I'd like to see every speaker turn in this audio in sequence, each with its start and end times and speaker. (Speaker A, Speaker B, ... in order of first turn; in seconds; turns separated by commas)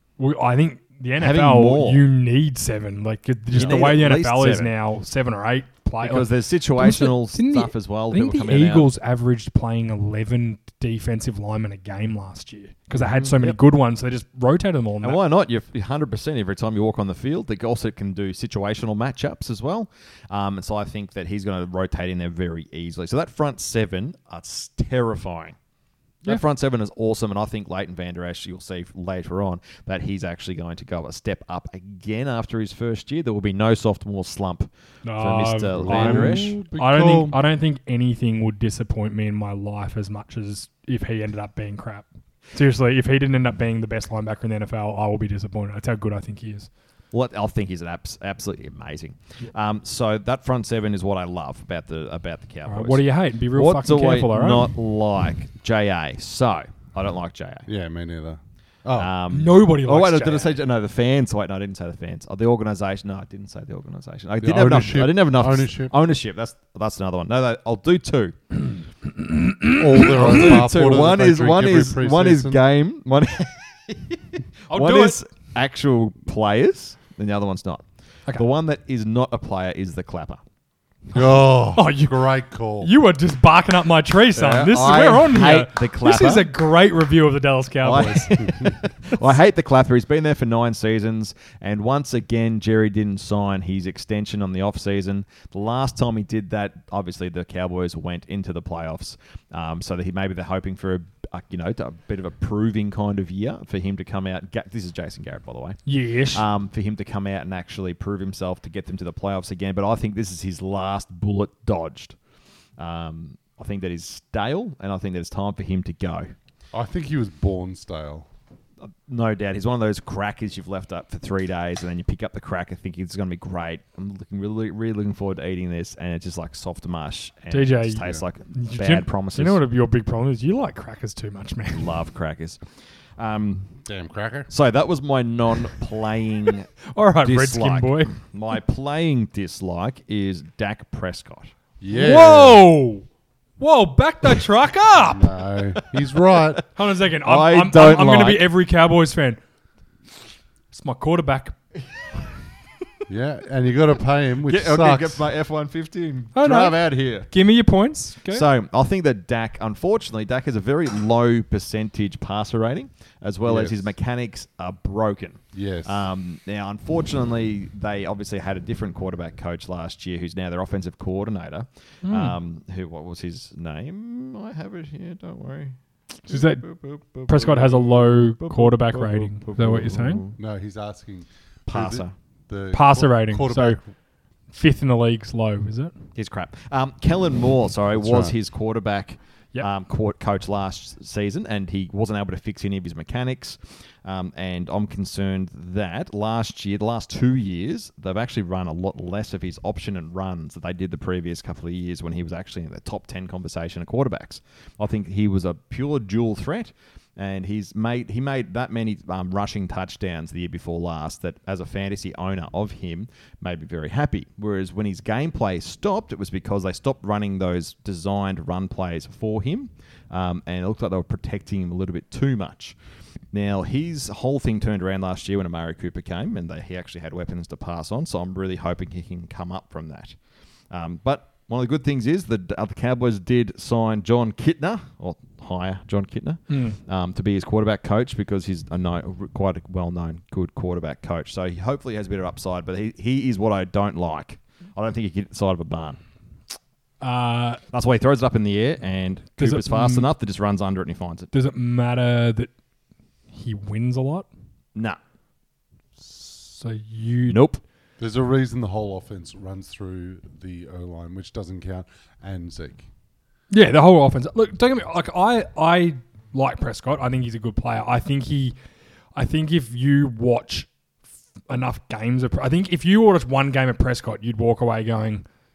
Speaker A: 0.2-15.2, Speaker B: 1.2-2.0, Speaker B: 3.5-4.7, Speaker B: 6.0-8.9, Speaker B: 12.9-13.6, Speaker B: 15.0-25.6, Speaker B: 26.2-36.5, Speaker A: 35.0-46.7, Speaker C: 35.7-37.4, Speaker B: 47.1-57.7, Speaker A: 52.6-54.7, Speaker C: 57.6-59.1, Speaker B: 59.0-68.3, Speaker A: 59.3-60.5, Speaker C: 64.4-65.9, Speaker A: 69.2-69.8, Speaker C: 69.8-72.6, Speaker B: 70.1-80.4, Speaker A: 74.7-75.2, Speaker C: 81.1-82.9, Speaker A: 81.7-82.3, Speaker A: 82.8-88.3, Speaker B: 84.3-86.5, Speaker B: 87.8-112.2, Speaker C: 88.4-88.8, Speaker A: 105.9-106.4, Speaker B: 112.8-116.3, Speaker C: 116.7-118.3, Speaker B: 118.8-129.6, Speaker A: 127.5-131.8, Speaker B: 131.7-132.6, Speaker B: 133.2-133.8, Speaker C: 133.8-134.5, Speaker B: 134.5-136.7, Speaker A: 136.9-138.1, Speaker B: 137.2-141.5, Speaker C: 141.8-142.7, Speaker A: 141.9-143.1, Speaker A: 143.6-145.3, Speaker C: 145.0-146.6, Speaker A: 146.7-149.4, Speaker B: 147.2-148.5, Speaker A: 150.7-151.5, Speaker C: 153.1-155.2, Speaker B: 154.4-157.3, Speaker A: 156.3-158.4, Speaker B: 158.3-180.3, Speaker C: 163.4-163.9, Speaker C: 165.5-166.0, Speaker A: 172.0-172.4, Speaker A: 176.3-176.6, Speaker A: 177.2-180.2, Speaker C: 180.4-183.8, Speaker B: 181.7-182.1, Speaker A: 182.7-183.8, Speaker A: 184.5-185.9, Speaker B: 186.2-222.7, Speaker C: 187.9-188.3, Speaker B: 223.3-230.2, Speaker B: 230.7-246.0, Speaker A: 236.5-236.8, Speaker A: 247.0-247.6, Speaker B: 247.7-251.3, Speaker A: 249.4-250.1, Speaker A: 251.3-252.5, Speaker A: 253.3-254.3, Speaker A: 256.0-257.4, Speaker B: 257.3-257.6, Speaker C: 258.0-262.9, Speaker A: 263.5-268.6, Speaker A: 269.1-270.7, Speaker A: 271.5-275.2